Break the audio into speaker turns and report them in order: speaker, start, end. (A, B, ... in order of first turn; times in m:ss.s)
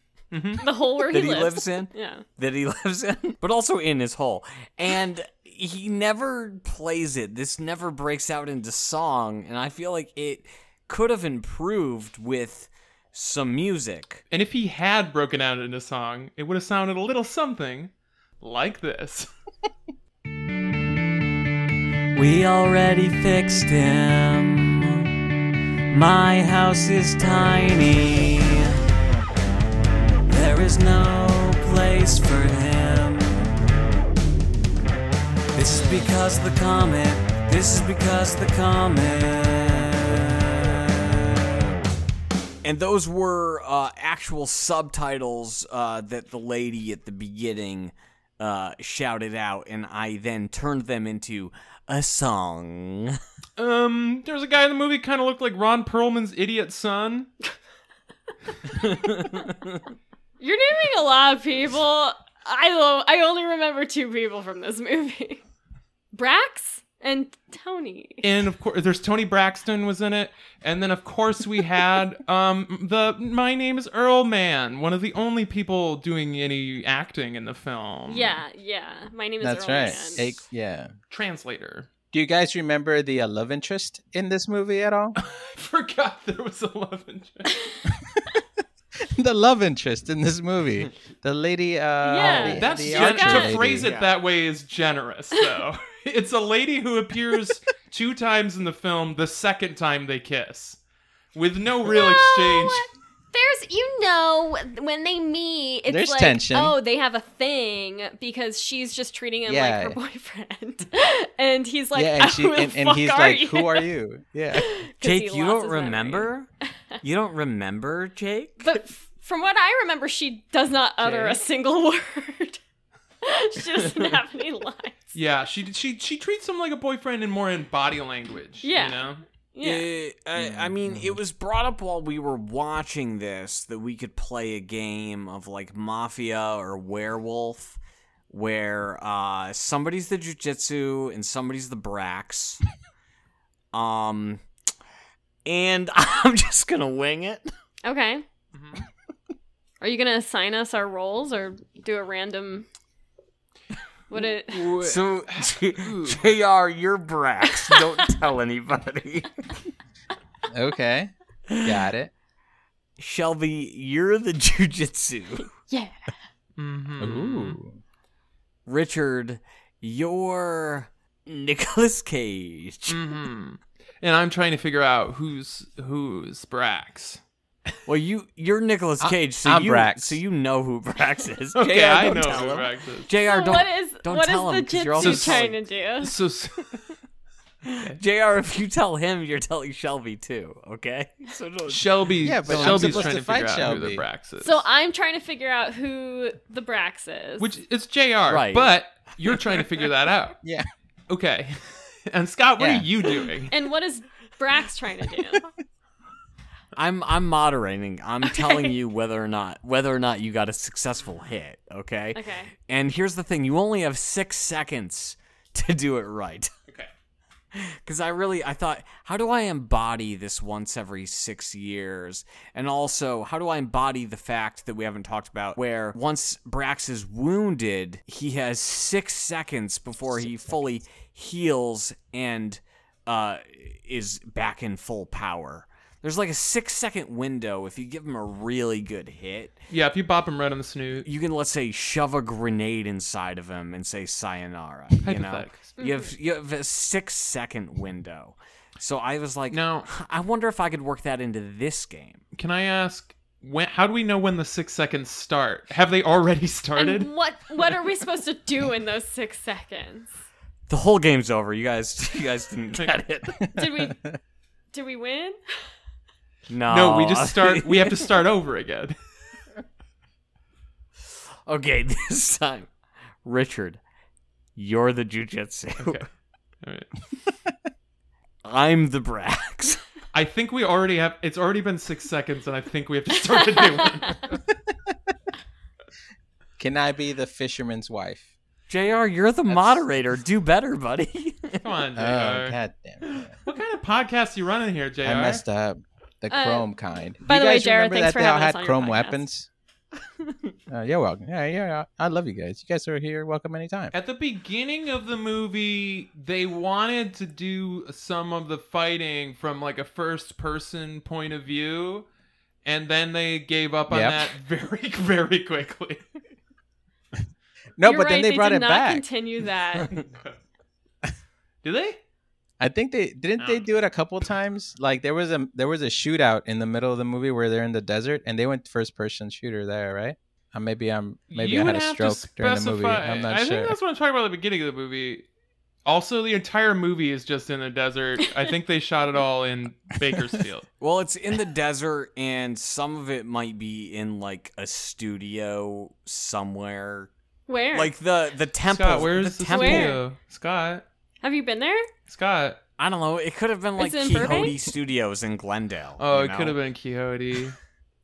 0:00.3-0:00.6 A
0:00.6-0:02.2 B
0:01.1-0:14.2 C
0:14.3-0:19.3 A
0:22.2-0:25.1 C
0:25.9-0:28.8 C
0:30.3-0:33.5 C
0:35.5-0:41.1 C
0:42.6-0:53.2 C
0:53.6-0:57.3 A
0:58.7-0:59.8 C
1:00.4-1:05.4 B
1:06.1-1:08.3 B
1:08.2-1:18.4 A
1:18.1-1:20.4 B
1:19.4-1:20.9 D
1:21.1-1:21.9 A
1:22.1-1:25.2 D
1:25.2-1:27.6 A
1:29.0-1:33.9 D
1:32.0-1:33.6 B
1:32.2-1:40.8 A
1:41.4-1:42.8 A
1:41.8-1:53.9 B
1:45.9-1:46.8 D
1:49.5-1:50.0 D
1:52.0-1:54.7 D
1:54.5-1:56.3 B
1:55.0-1:56.5 C
1:57.0-1:58.8 C
1:58.6-2:02.6 B
2:03.2-2:05.2 B
2:05.2-2:09.2 A
2:08.6-2:09.9 B
2:09.6-2:17.8 C
2:10.8-2:11.2 D
2:18.3-2:22.6 C
2:23.7-2:24.4 C
2:25.5-2:27.5 C
2:27.8-2:28.2 B
2:28.5-2:28.9 A
2:29.8-2:32.7 B
2:34.1-2:34.7 B
2:34.2-2:36.3 A
2:34.8-2:39.3 C
2:40.5-2:41.1 D
2:41.6-2:42.1 D
2:43.0-2:45.5 C
2:45.5-2:46.2 B
2:46.6-2:47.6 A
2:47.0-2:47.8 D
2:48.7-2:53.0 C
2:52.9-2:57.2 A
2:57.9-3:05.6 C
2:59.0-3:00.2 D
3:01.6-3:03.1 A
3:03.2-3:06.2 B
3:05.0-3:05.4 A
3:06.0-3:06.8 A
3:07.9-3:13.2 C
3:11.7-3:14.6 A
3:12.2-3:14.0 D
3:14.4-3:17.5 B
3:17.4-3:20.4 A
3:18.3-3:18.7 C
3:20.4-3:20.7 D
3:21.1-3:23.6 A
3:22.6-3:22.9 D
3:23.5-3:25.5 B
3:26.8-3:36.5 C
3:28.3-3:28.7 B
3:32.2-3:32.5 B
3:37.5-3:59.6 C
3:59.7-4:01.1 A
4:01.0-4:12.2 C
4:05.0-4:05.7 A
4:05.8-4:06.1 B
4:09.5-4:09.9 A
4:12.3-4:17.1 A
4:16.8-4:20.1 B
4:20.7-4:23.4 C
4:23.6-4:24.0 B
4:23.6-4:24.2 D
4:24.7-4:25.4 B
4:26.5-4:28.0 C
4:26.7-4:29.0 A
4:31.0-4:32.7 C
4:33.2-4:33.8 C
4:34.6-4:36.0 C
4:35.8-4:36.1 A
4:36.6-4:36.9 A
4:38.4-4:39.8 C
4:40.1-4:44.4 A
4:46.6-4:48.3 D
4:48.7-4:51.6 C
4:49.5-4:49.8 D
4:51.6-4:52.6 A
4:52.0-4:53.4 D
4:53.4-4:55.4 A
4:55.0-4:59.5 D
4:56.3-4:56.7 B
4:57.2-4:59.2 B
5:00.7-5:03.9 D
5:03.9-5:12.1 A
5:12.6-5:16.0 A
5:13.9-5:14.3 D
5:17.8-5:19.0 D
5:17.8-5:20.0 B
5:19.9-5:20.4 A
5:21.6-5:22.0 A
5:22.6-5:33.8 D
5:31.3-5:35.3 A
5:35.8-5:40.7 A
5:40.8-5:47.1 C
5:47.5-5:47.9 B
5:47.7-5:50.0 C
5:48.7-5:50.8 A
5:49.5-5:50.0 B
5:51.2-5:51.9 B
5:52.1-5:52.6 A
5:52.8-5:56.6 C
5:53.8-5:54.6 B
5:56.0-5:57.6 A